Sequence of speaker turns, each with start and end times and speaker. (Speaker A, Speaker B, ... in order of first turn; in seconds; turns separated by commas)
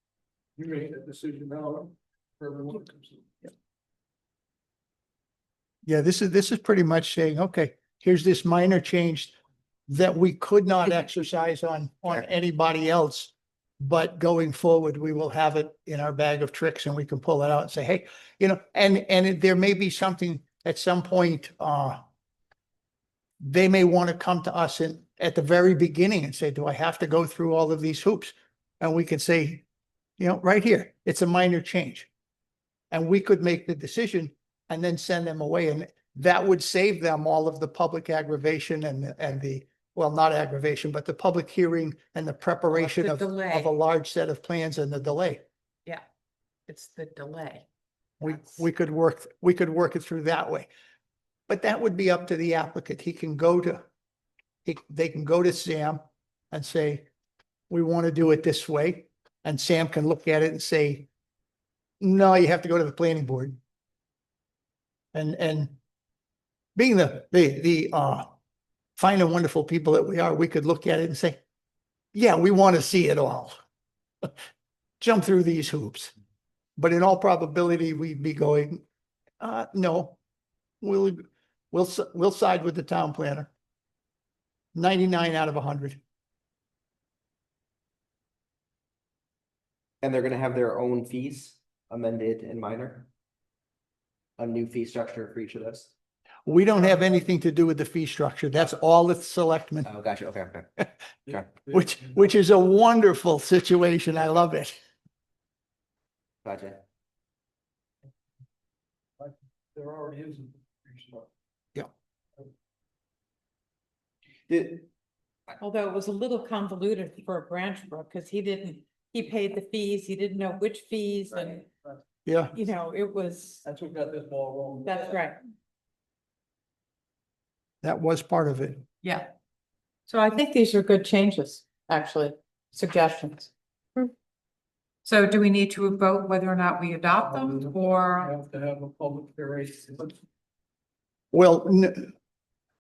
Speaker A: 0.6-3.5, Speaker B: 5.8-9.3, Speaker B: 9.9-22.0, Speaker B: 23.4-29.6, Speaker B: 30.2-32.1, Speaker B: 32.9-45.4, Speaker C: 42.7-43.8, Speaker C: 46.7-47.6, Speaker B: 48.2-50.7, Speaker C: 48.2-48.6, Speaker B: 51.5-53.8, Speaker B: 54.6-56.0, Speaker B: 56.5-57.1, Speaker B: 57.7-61.1, Speaker B: 62.0-63.6, Speaker B: 65.1-65.7, Speaker B: 66.8-68.3, Speaker B: 69.0-71.4, Speaker B: 72.1-73.5, Speaker B: 75.0-76.1, Speaker B: 76.8-78.8, Speaker B: 79.4-80.2, Speaker B: 80.8-83.5, Speaker B: 84.7-86.0, Speaker D: 90.0-93.1, Speaker D: 94.4-95.9, Speaker B: 96.5-99.9, Speaker A: 96.8-97.2, Speaker D: 99.8-100.7, Speaker A: 101.3-102.2, Speaker B: 101.7-104.8, Speaker D: 106.4-106.8, Speaker A: 109.2-111.3, Speaker D: 114.5-114.9, Speaker C: 115.6-121.7, Speaker B: 122.2-122.6, Speaker C: 122.5-123.6, Speaker A: 123.6-125.2, Speaker C: 124.8-125.4, Speaker B: 127.8-128.8, Speaker C: 129.0-129.3, Speaker C: 130.1-134.1, Speaker C: 135.0-138.3, Speaker A: 137.1-140.2, Speaker B: 141.3-142.1